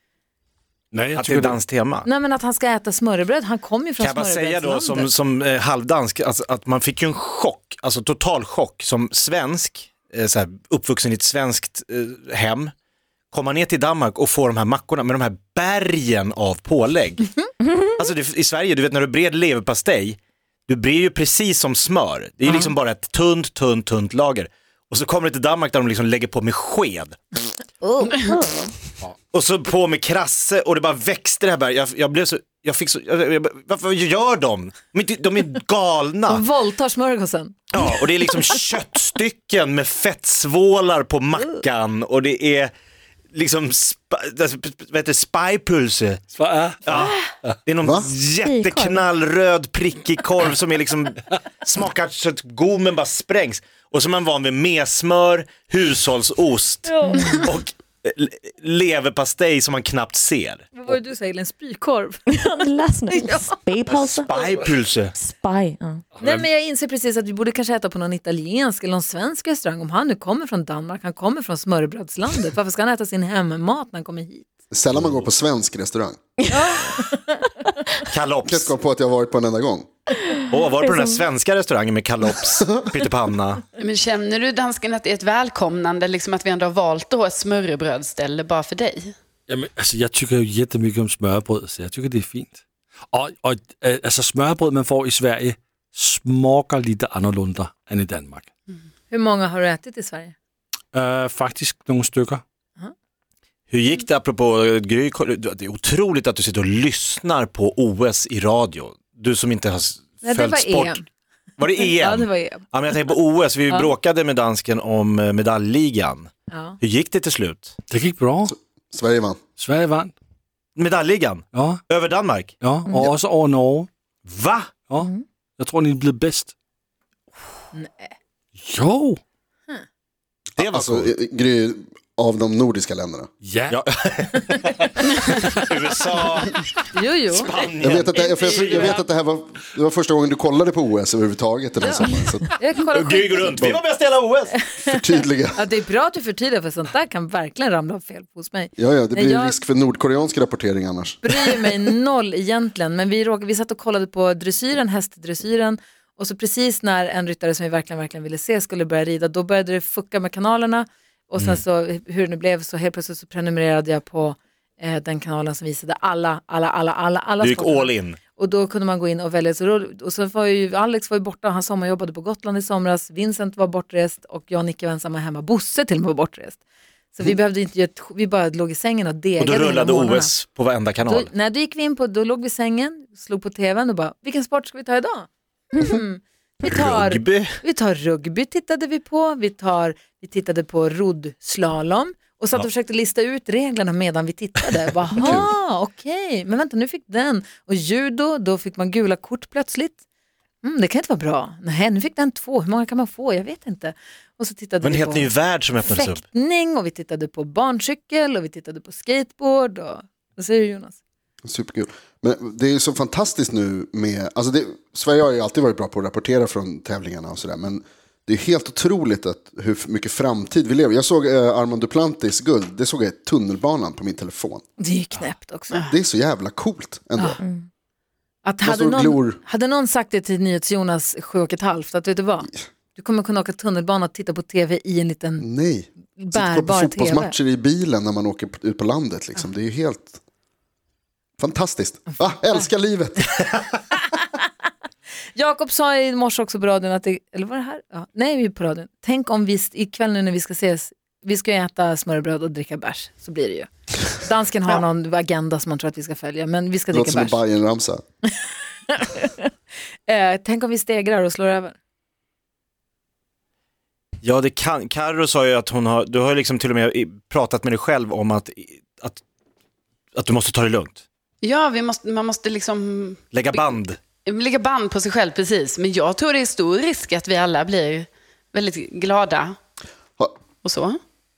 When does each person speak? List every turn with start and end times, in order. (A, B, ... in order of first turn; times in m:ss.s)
0:00.9-0:01.6 A
0:01.2-0:02.1 B
0:02.0-0:05.1 C
0:04.0-0:12.7 B
0:13.3-0:17.3 B
0:17.9-0:27.2 B
0:27.8-0:28.6 C
0:29.3-0:36.4 B
0:36.3-0:37.7 C
0:37.7-0:42.7 B
0:43.3-0:46.2 B
0:46.4-0:47.6 A
0:46.9-1:00.7 B
0:47.8-0:48.1 D
0:48.5-0:48.9 E
0:56.9-0:57.4 C
1:00.8-1:02.4 C
1:02.3-1:04.3 E
1:03.1-1:03.6 C
1:03.9-1:05.1 B
1:05.2-1:06.0 E
1:06.2-1:06.4 A
1:06.2-1:14.5 C
1:14.7-1:16.2 D
1:14.9-1:15.2 B
1:16.5-1:17.5 C
1:18.1-1:18.7 B
1:18.5-1:19.9 D
1:20.5-1:23.6 B
1:23.8-1:29.2 F
1:29.5-1:32.6 A
1:33.1-1:38.5 A
1:39.1-1:40.4 C
1:40.9-1:42.4 A
1:43.7-1:51.0 B
1:50.2-1:51.1 C
1:51.6-1:57.7 B
1:51.8-1:52.8 C
1:56.5-1:56.8 C
1:57.9-1:58.5 A
1:58.9-1:59.4 D
1:59.6-2:00.1 A
2:00.8-2:02.5 B
2:01.5-2:01.8 A
2:02.6-2:03.9 A
2:04.2-2:04.7 B
2:04.9-2:06.5 A
2:07.7-2:08.1 C
2:08.6-2:09.2 A
2:10.6-2:11.1 B
2:10.6-2:13.3 D
2:13.4-2:13.8 A
2:13.7-2:16.7 B
2:16.9-2:17.5 C
2:17.3-2:18.9 B
2:17.8-2:22.5 D
2:18.2-2:18.6 F
2:22.6-2:23.6 C
2:22.9-2:24.6 B
2:23.4-2:23.8 D
2:24.6-2:25.0 C
2:24.8-2:25.6 D
2:25.6-2:29.6 C
2:28.8-2:31.6 D
2:31.2-2:56.6 C
2:47.4-2:48.2 B
2:57.1-3:00.3 C
2:59.4-3:01.3 B
3:01.0-3:20.0 C
3:06.6-3:07.5 B
3:20.6-3:31.0 C
3:24.8-3:26.2 B
3:31.4-3:44.6 D
3:44.8-3:45.8 C
3:45.8-3:47.4 D
3:48.4-3:55.5 C
3:48.6-3:49.4 D
3:55.4-4:00.2 D
3:56.2-3:57.4 C
4:01.4-4:03.3 D
4:02.3-4:02.6 C
4:05.4-4:17.4 C
4:16.9-4:18.0 D
4:18.9-4:19.5 C
4:20.1-4:21.8 C
4:24.2-4:29.2 B
4:30.2-4:31.0 B
4:31.4-4:39.6 F
4:33.3-4:34.0 B
4:40.6-4:41.0 F